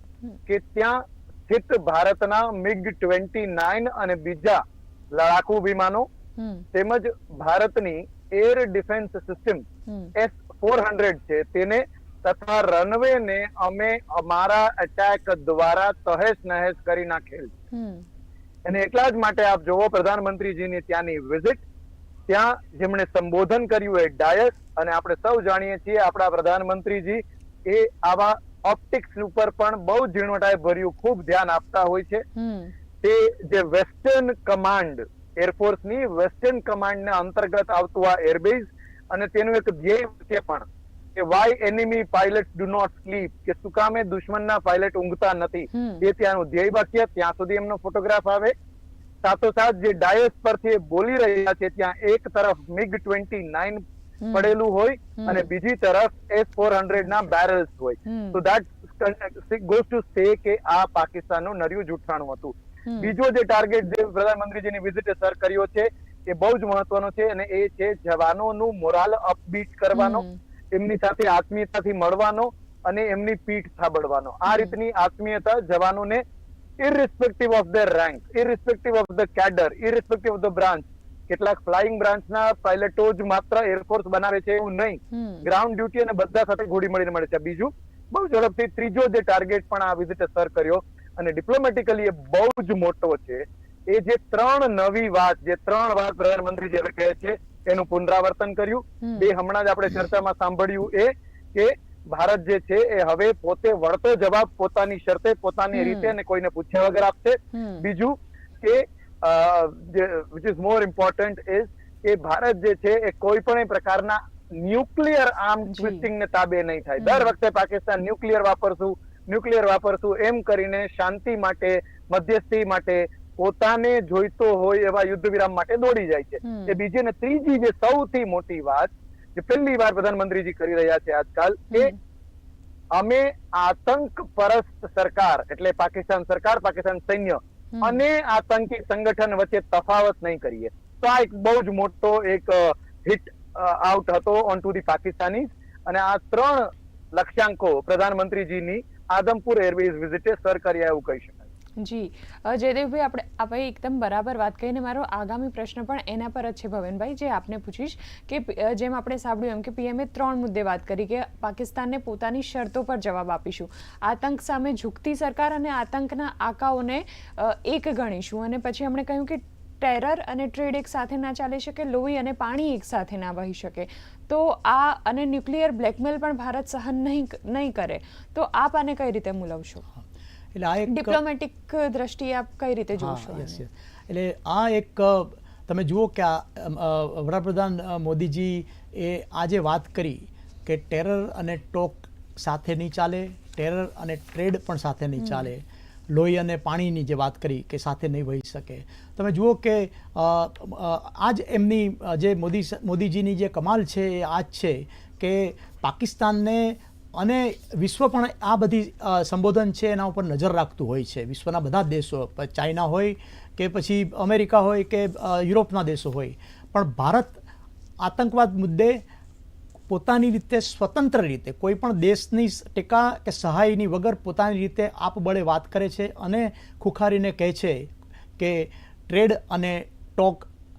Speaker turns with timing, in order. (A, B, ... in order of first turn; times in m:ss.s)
0:00.5-0:04.6 A
0:05.1-0:06.1 A
0:06.4-0:06.6 B
0:06.7-0:09.6 A
0:09.9-0:10.1 B
0:10.2-0:17.5 A
0:17.7-0:18.0 B
0:18.6-0:21.6 A
0:22.3-0:32.2 A
0:32.4-0:32.7 B
0:33.0-0:48.5 A
0:45.7-0:46.0 B
0:49.2-1:16.2 A
0:54.2-0:54.5 B
0:55.2-0:55.5 B
0:58.0-0:58.4 B
1:02.8-1:03.1 B
1:09.9-1:10.4 B
1:16.8-2:11.9 A
1:25.1-1:25.5 B
1:39.0-1:39.3 B
1:45.7-1:46.1 B
1:47.5-1:47.9 B
1:55.7-1:56.0 B
1:57.0-1:57.3 B
2:06.4-2:06.8 B
2:11.7-2:12.0 B
2:12.9-2:31.5 A
2:17.7-2:18.0 B
2:31.8-2:59.8 B
3:00.5-3:01.2 C
3:00.9-3:03.6 B
3:03.0-3:37.4 C
3:15.2-3:15.5 B
3:38.0-3:39.0 C
3:39.9-3:50.5 C